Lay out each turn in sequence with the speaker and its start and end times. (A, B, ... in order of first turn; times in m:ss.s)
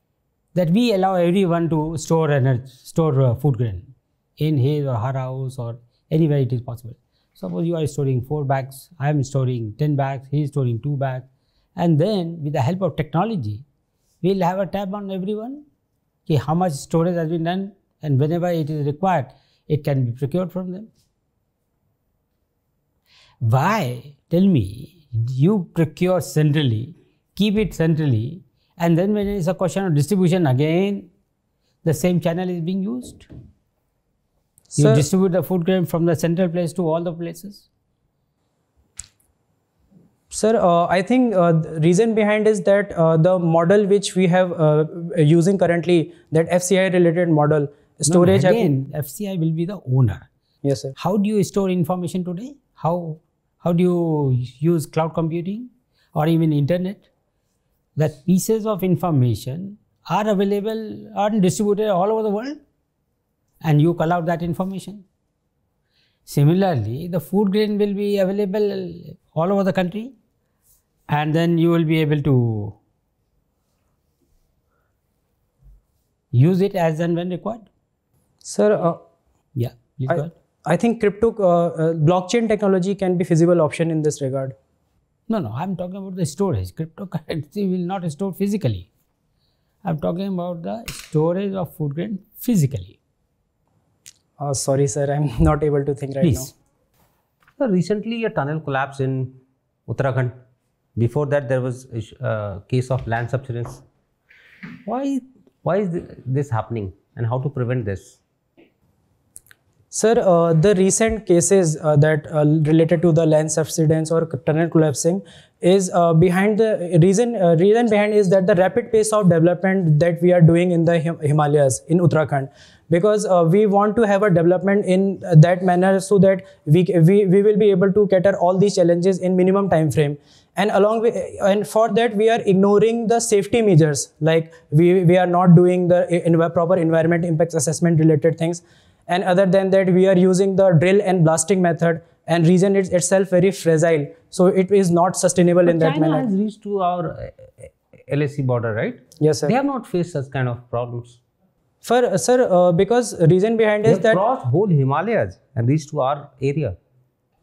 0:00.5-0:13.6 A
0:14.2-0:15.6 A
0:16.3-0:20.9 A
0:23.4-0:31.1 A
0:31.8-0:33.3 A
0:34.7-0:35.0 B
0:34.8-0:37.6 A
0:40.3-0:48.8 B
0:48.0-0:50.3 A
0:50.6-0:50.9 B
0:51.0-0:57.0 A
0:58.0-1:02.6 A
1:03.6-1:05.0 A
1:06.3-1:10.1 A
1:11.1-1:12.8 A
1:16.3-1:17.7 A
1:18.4-1:19.0 B
1:19.6-1:20.3 A
1:20.1-1:24.5 B
1:25.3-1:28.9 A
1:29.8-1:33.0 A
1:34.4-1:36.5 B
1:36.2-1:36.5 A
1:37.6-1:40.4 C
1:41.0-1:43.8 C
1:44.8-1:48.2 C
1:49.9-2:26.3 B
2:25.6-2:31.2 C
2:29.2-2:29.6 B
2:31.8-2:34.2 B
2:33.8-2:36.8 C